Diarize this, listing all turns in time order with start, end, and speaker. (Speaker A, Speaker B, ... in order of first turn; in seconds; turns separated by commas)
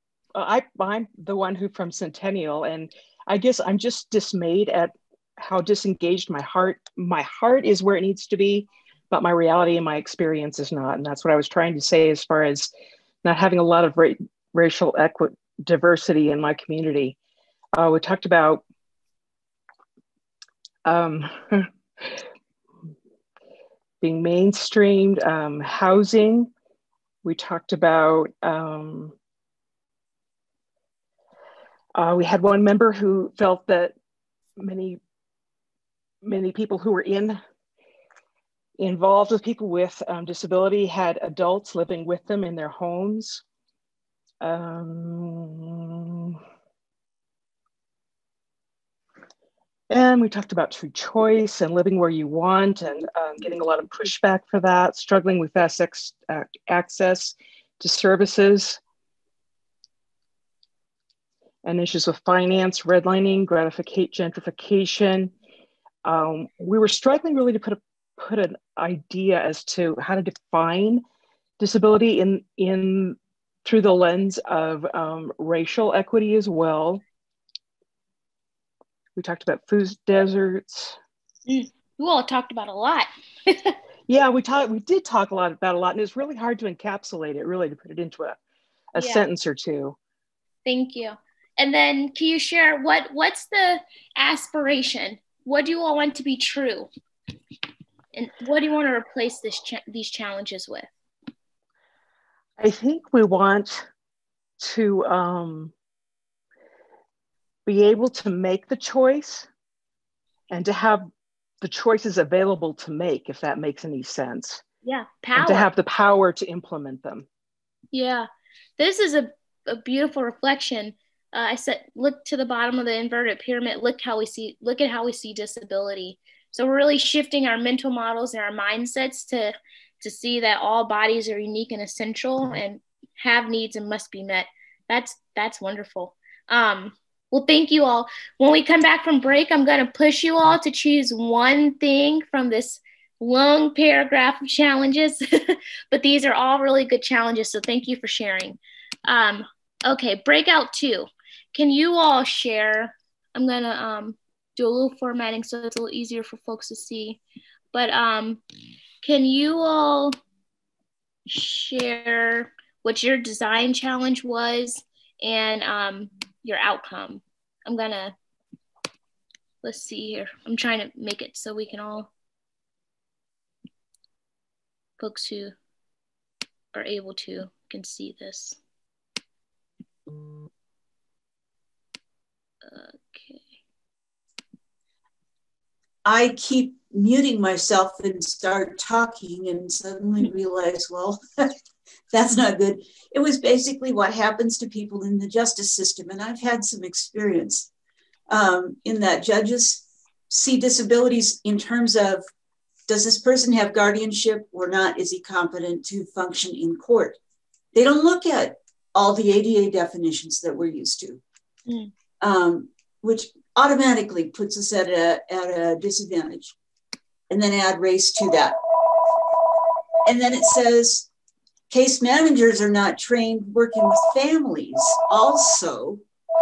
Speaker A: 0.3-12.7, Speaker A: 13.2-17.1, Speaker A: 17.7-18.6, Speaker A: 20.8-21.7, Speaker A: 24.0-26.5, Speaker A: 27.2-29.1, Speaker A: 31.9-33.9, Speaker A: 34.6-35.0, Speaker A: 36.2-37.4, Speaker A: 38.8-43.4, Speaker A: 44.4-46.4, Speaker A: 49.9-58.8, Speaker A: 61.6-65.3, Speaker A: 66.0-71.0, Speaker A: 71.6-77.0, Speaker A: 79.2-81.0, Speaker B: 81.5-83.8, Speaker A: 84.1-88.4, Speaker A: 88.9-90.0, Speaker B: 89.0-89.2, Speaker B: 90.6-96.9, Speaker B: 98.1-100.9, Speaker A: 102.6-103.8, Speaker A: 104.6-105.7, Speaker A: 107.7-109.5, Speaker A: 110.5-111.1, Speaker A: 111.6-114.6, Speaker B: 114.8-115.7, Speaker A: 115.3-117.2, Speaker B: 117.9-118.3, Speaker B: 118.8-157.2, Speaker B: 157.7-158.4, Speaker B: 159.0-160.1, Speaker B: 161.2-168.1, Speaker B: 169.6-172.1, Speaker B: 175.0-175.5, Speaker B: 176.7-178.6, Speaker B: 182.6-183.5, Speaker C: 186.0-191.2, Speaker C: 192.1-197.7, Speaker C: 198.3-202.2, Speaker C: 202.9-207.2, Speaker C: 207.7-211.2, Speaker C: 212.2-216.5, Speaker C: 217.3-218.6, Speaker C: 220.0-221.1, Speaker C: 221.7-226.0